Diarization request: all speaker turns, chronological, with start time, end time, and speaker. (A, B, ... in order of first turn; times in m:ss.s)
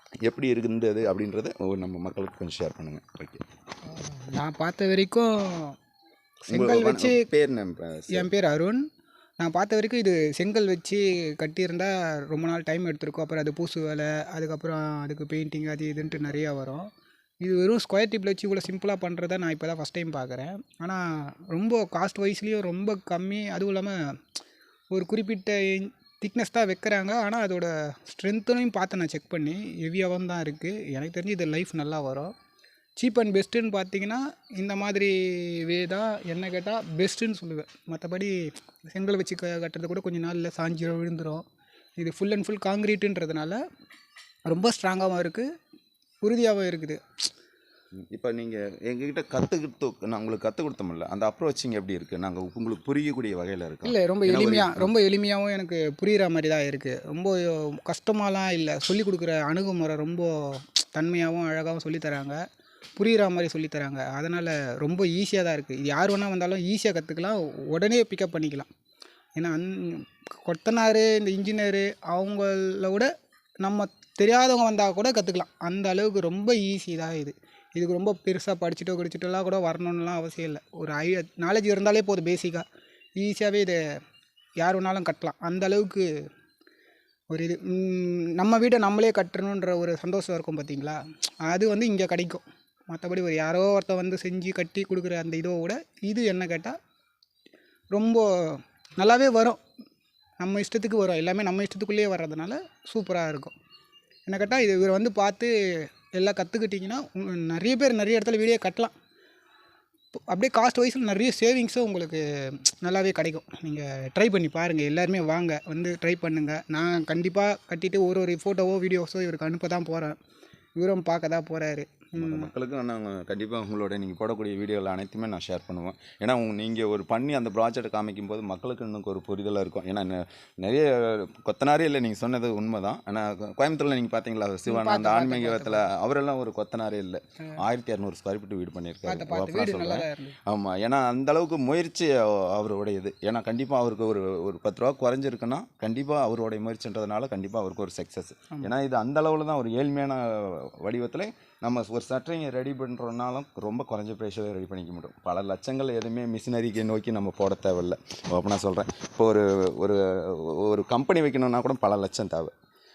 0:00.2-0:03.4 A
0:03.8-0:05.8 B
0:06.4-0:08.3 A
0:06.5-0:07.3 B
0:08.1-0:08.8 B
0:09.4-0:16.9 B
0:17.4-0:24.0 B
0:24.9-0:32.3 B
0:33.0-0:41.4 B
0:42.0-0:43.6 B
0:44.5-0:45.5 B
0:46.2-0:47.3 B
0:47.9-0:55.0 A
0:53.8-1:02.4 B
1:03.0-1:08.7 B
1:09.4-1:22.6 B
1:23.2-1:23.8 B
1:24.6-1:26.1 B
1:27.3-1:36.8 B
1:37.9-1:39.6 B
1:40.4-1:43.5 B
1:44.3-1:48.9 B
1:50.2-2:00.2 B
2:00.8-2:02.5 B
2:02.2-2:42.5 A
2:14.7-2:15.9 B
2:19.1-2:20.4 B